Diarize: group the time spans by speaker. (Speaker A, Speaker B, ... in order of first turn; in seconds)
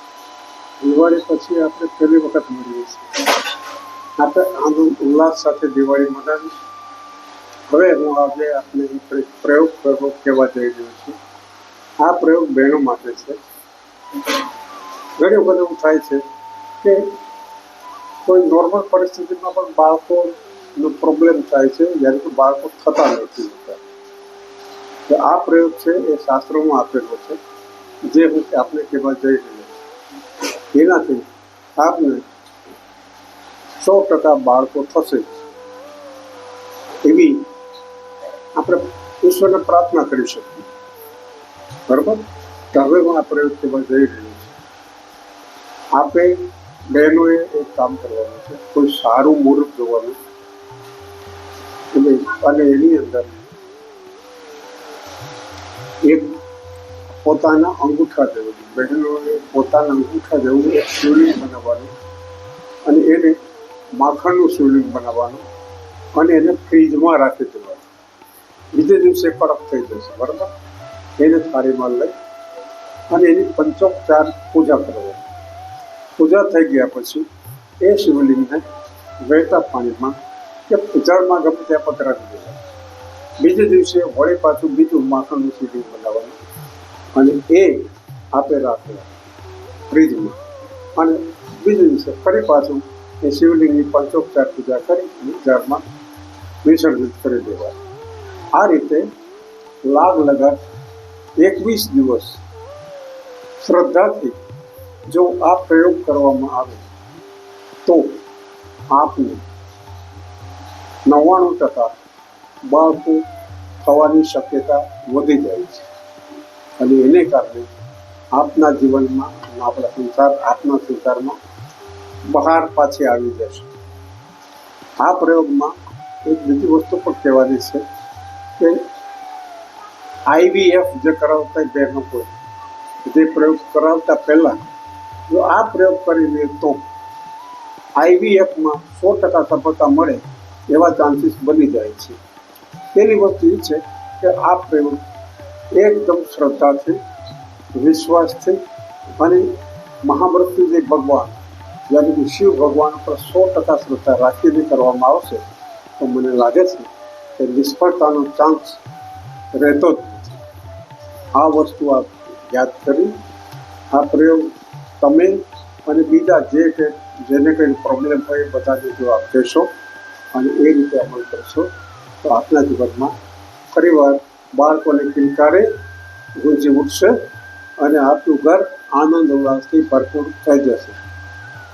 Speaker A: 0.8-3.3, 4.2-6.6, 7.7-11.2, 12.0-13.4, 15.2-16.2, 16.8-17.1, 18.2-23.8, 25.1-27.4, 28.0-29.7, 30.7-32.2, 33.8-35.4, 37.0-37.5, 38.5-40.7, 41.9-44.5, 45.9-50.2, 51.9-53.4, 56.0-56.4, 57.2-61.9, 62.9-63.4, 64.0-65.4, 66.1-67.8, 68.7-70.5, 71.2-72.1, 73.1-75.2, 76.2-77.3, 77.8-78.6, 79.2-82.6, 83.4-86.4, 87.1-89.1, 89.9-90.4, 90.9-95.8, 96.6-97.8, 98.5-99.1, 99.8-100.6, 101.4-102.4, 103.6-104.4, 105.1-106.8, 107.8-108.2, 108.9-109.5, 111.0-111.9, 112.6-113.2, 113.8-115.8, 116.8-117.7, 118.3-121.4, 122.3-123.7, 125.0-127.8, 128.6-128.9, 130.3-132.3, 133.0-134.6, 135.3-136.8, 137.9-142.2, 142.9-145.0, 145.7-147.0, 147.7-148.6, 149.2-151.3, 151.9-155.4, 156.0-158.8, 159.5-160.4, 161.3-163.2, 163.9-169.7, 170.3-171.7, 172.2-173.1, 173.7-175.7, 176.3-177.2, 177.8-181.0